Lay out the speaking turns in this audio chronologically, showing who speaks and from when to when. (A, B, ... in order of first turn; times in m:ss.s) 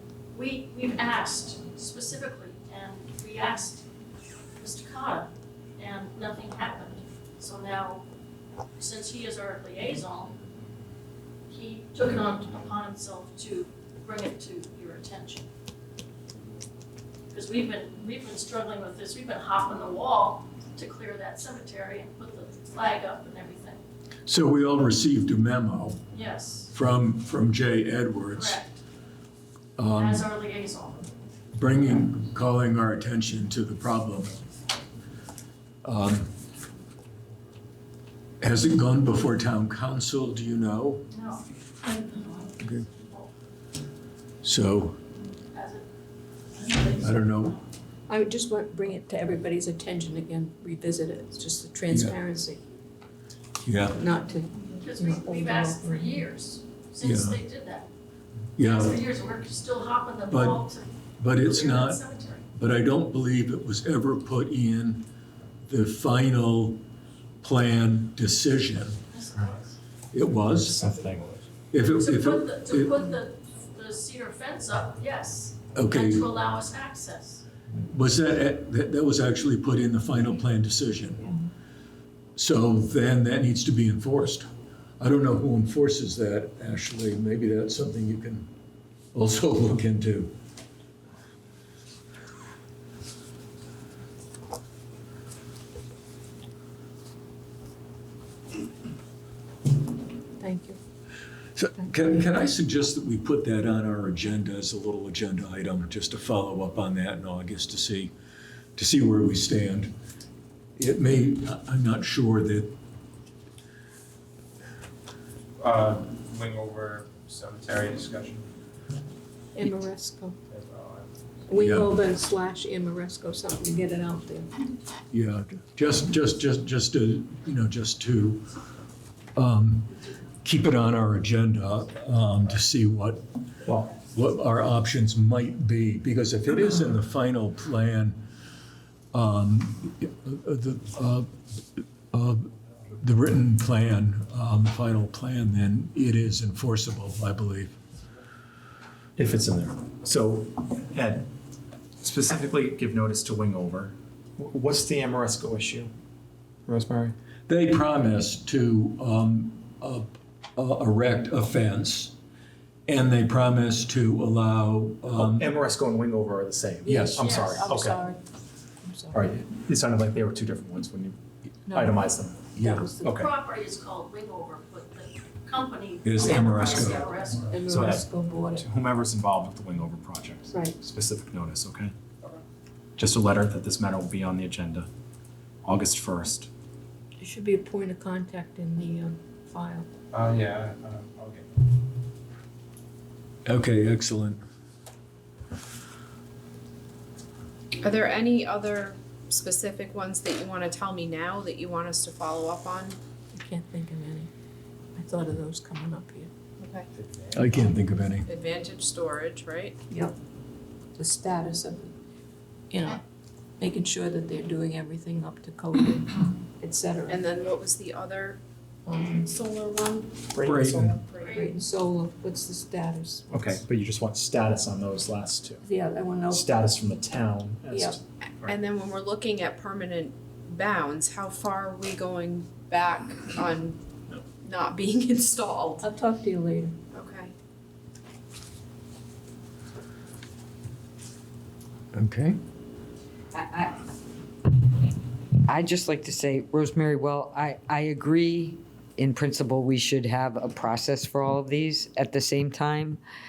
0:00.3-0:03.9 A
0:04.6-0:08.0 A
0:08.8-0:10.3 A
0:11.5-0:15.5 A
0:17.3-0:23.8 A
0:24.3-0:26.0 B
0:26.1-0:26.7 A
0:26.7-0:28.6 B
0:28.3-0:28.7 A
0:29.8-0:30.3 B
0:29.9-0:31.1 A
0:31.6-0:34.3 B
0:35.8-0:36.4 B
0:38.4-0:41.1 B
0:41.1-0:43.3 A
0:42.6-0:42.9 B
0:44.4-0:45.0 B
0:45.5-0:45.9 A
0:46.6-0:47.6 A
0:47.0-0:47.6 B
0:48.1-0:52.6 C
0:51.9-0:52.2 B
0:53.6-0:54.0 B
0:54.0-0:56.3 C
0:54.8-0:57.9 A
0:57.0-0:57.4 B
0:58.6-0:59.0 B
0:58.6-1:02.4 A
1:00.3-1:00.6 B
1:01.2-1:02.0 B
1:02.5-1:05.1 B
1:05.7-1:06.8 B
1:07.4-1:09.0 B
1:09.1-1:09.7 A
1:10.1-1:10.8 B
1:10.5-1:11.4 D
1:11.7-1:13.0 B
1:12.0-1:17.4 A
1:15.8-1:16.3 B
1:17.8-1:21.3 B
1:22.4-1:24.5 B
1:25.0-1:28.5 B
1:29.1-1:30.4 B
1:40.4-1:40.8 C
1:41.6-1:48.1 B
1:48.8-1:49.9 B
1:50.8-1:52.8 B
1:55.6-1:58.5 E
1:59.6-2:00.4 C
2:00.5-2:01.1 E
2:01.5-2:04.5 C
2:01.6-2:01.9 B
2:05.1-2:08.5 B
2:09.4-2:13.3 B
2:13.6-2:14.0 D
2:13.9-2:18.2 B
2:19.1-2:21.3 B
2:22.1-2:27.8 B
2:29.2-2:31.3 D
2:32.0-2:35.9 D
2:36.7-2:37.2 D
2:37.5-2:42.2 B
2:42.9-2:45.5 B
2:45.1-2:48.0 D
2:46.8-2:48.2 C
2:46.9-2:47.3 B
2:47.2-2:47.5 A
2:48.8-2:49.3 C
2:49.1-2:51.2 D
2:51.7-2:52.0 C
2:51.7-2:53.3 D
2:52.6-2:52.9 B
2:52.6-2:53.1 C
2:53.1-2:57.5 A
2:56.0-2:57.1 B
2:56.2-2:56.6 C
2:57.5-2:58.7 C
2:57.7-3:01.9 D
3:00.5-3:00.8 C
3:03.0-3:04.9 D
3:05.6-3:06.5 D
3:07.2-3:09.9 C
3:10.1-3:11.7 E
3:13.4-3:14.4 B
3:17.8-3:23.0 F
3:23.3-3:24.3 C
3:25.0-3:26.3 C
3:26.6-3:26.9 F
3:27.3-3:28.3 B
3:28.3-3:29.8 F
3:29.9-3:30.1 C
3:31.0-3:31.9 C
3:32.7-3:33.0 C
3:33.6-3:37.3 C
3:37.1-3:38.4 F
3:38.9-3:39.2 C
3:39.2-3:40.3 F
3:40.3-3:41.0 D
3:40.4-3:41.0 B
3:41.0-3:41.5 F
3:41.2-3:41.5 A
3:41.3-3:43.6 C
3:43.3-3:45.6 D
3:45.6-3:46.5 C
3:46.3-3:48.6 D
3:47.7-3:48.0 C
3:48.4-3:53.8 F
3:54.4-3:55.9 F
3:55.8-3:56.8 C
3:56.9-3:57.3 F
4:01.9-4:02.4 B
4:03.3-4:03.7 G
4:05.5-4:13.0 G